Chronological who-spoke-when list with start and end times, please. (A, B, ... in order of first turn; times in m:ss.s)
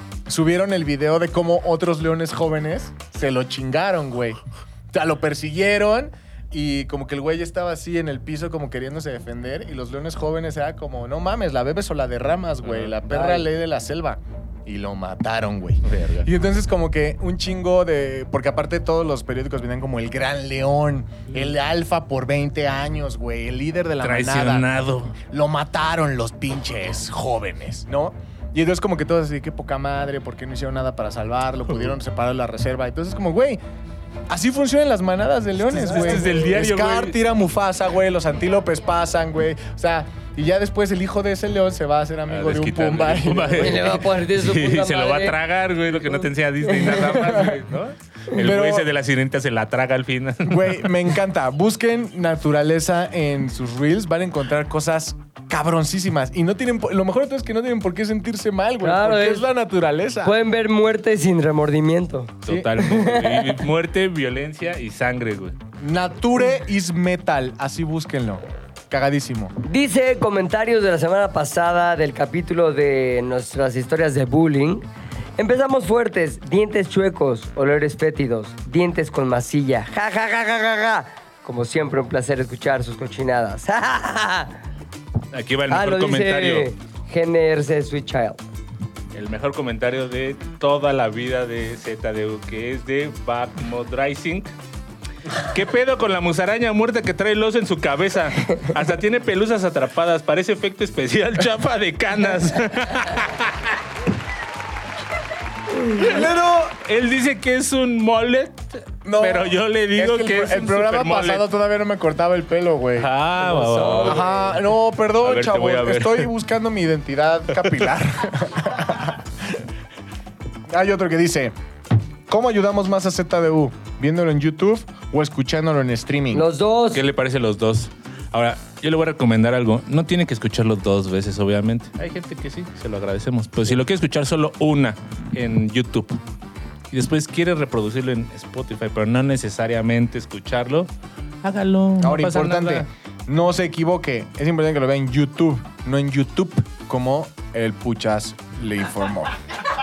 0:00.3-0:04.4 A
0:04.9-0:24.7 A
0:12.6-0:13.4 B
0:15.8-0:16.3 B
0:24.0-0:25.2 B
0:25.2-0:33.6 A
0:34.3-0:44.0 A
0:35.6-0:37.1 B
0:42.3-0:51.0 B
0:43.5-0:45.4 C
0:47.0-0:47.6 A
0:48.3-0:48.9 A
0:50.4-1:00.4 A
0:58.8-0:59.5 C
1:00.2-1:03.6 C
1:02.4-1:05.6 B
1:02.4-1:02.7 A
1:05.8-1:09.6 A
1:09.6-1:14.8 C
1:15.4-1:24.6 C
1:25.3-1:26.7 B
1:25.7-1:28.4 C
1:29.1-1:34.5 B
1:35.4-1:43.8 B
1:46.0-1:51.4 B
1:46.0-1:46.8 A
1:49.0-1:53.1 A
1:53.0-1:54.6 B
1:53.4-1:54.4 C
1:54.0-1:59.6 A
1:55.2-1:56.3 B
1:57.6-1:57.9 B
2:00.7-2:01.5 A
2:02.3-2:06.5 A
2:06.3-2:07.0 C
2:06.9-2:16.2 B
2:16.9-2:20.9 B
2:21.4-2:22.9 B
2:22.0-2:29.4 A